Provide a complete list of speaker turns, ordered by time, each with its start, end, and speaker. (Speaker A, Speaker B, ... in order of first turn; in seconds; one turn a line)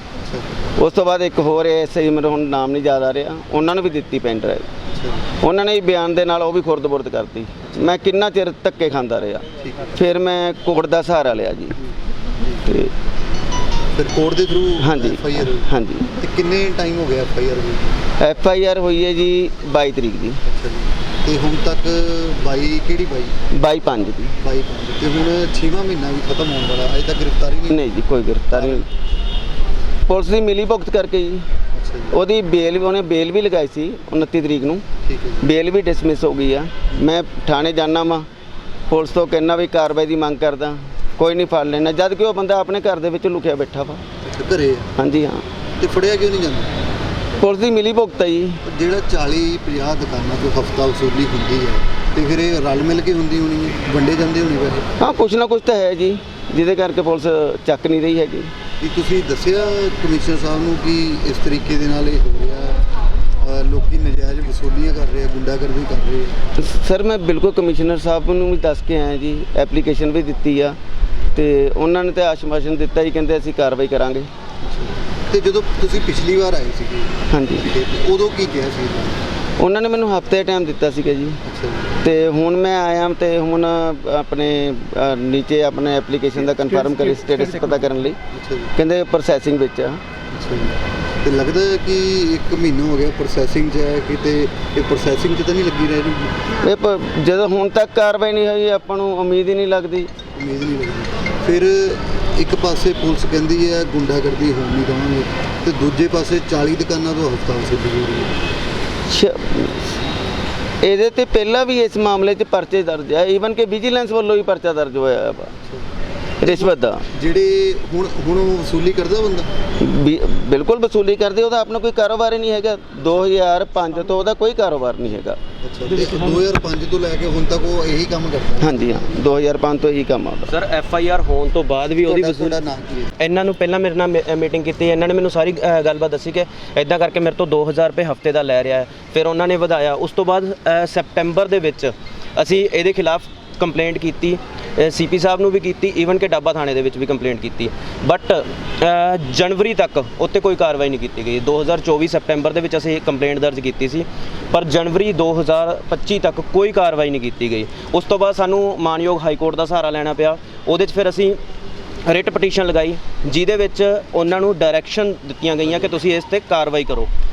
Speaker A: 0.2-0.5
Speaker B: 0.8-4.7
Speaker A: 4.9-5.3
Speaker B: 5.4-11.8
Speaker A: 9.6-10.0
Speaker A: 11.8-12.7
Speaker B: 12.7-12.9
Speaker A: 13.9-18.0
Speaker B: 14.8-16.1
Speaker B: 18.2-20.4
Speaker A: 20.5-23.4
Speaker B: 23.6-24.3
Speaker A: 24.4-27.9
Speaker B: 27.7-28.9
Speaker A: 28.5-28.9
Speaker B: 30.1-31.5
Speaker A: 31.7-32.2
Speaker B: 32.1-34.9
Speaker A: 35.0-35.5
Speaker B: 35.4-38.3
Speaker B: 38.9-44.0
Speaker A: 44.2-44.9
Speaker B: 45.0-45.5
Speaker A: 45.8-46.7
Speaker B: 47.4-48.6
Speaker A: 48.6-54.9
Speaker B: 55.0-58.5
Speaker A: 58.8-62.8
Speaker A: 63.4-66.4
Speaker B: 66.6-70.8
Speaker B: 71.3-74.3
Speaker A: 74.6-79.2
Speaker B: 77.3-77.7
Speaker B: 79.6-81.4
Speaker A: 81.5-82.0
Speaker B: 82.0-88.2
Speaker A: 88.3-88.7
Speaker B: 88.8-90.0
Speaker A: 90.3-96.5
Speaker B: 96.6-100.1
Speaker A: 100.3-108.4
Speaker B: 109.1-109.8
Speaker B: 110.8-115.5
Speaker B: 116.4-117.1
Speaker A: 116.4-119.5
Speaker B: 119.8-125.4
Speaker A: 125.6-129.0
Speaker B: 128.6-130.5
Speaker C: 130.5-132.6
Speaker A: 132.1-133.1
Speaker C: 133.2-161.4
Speaker C: 162.1-167.1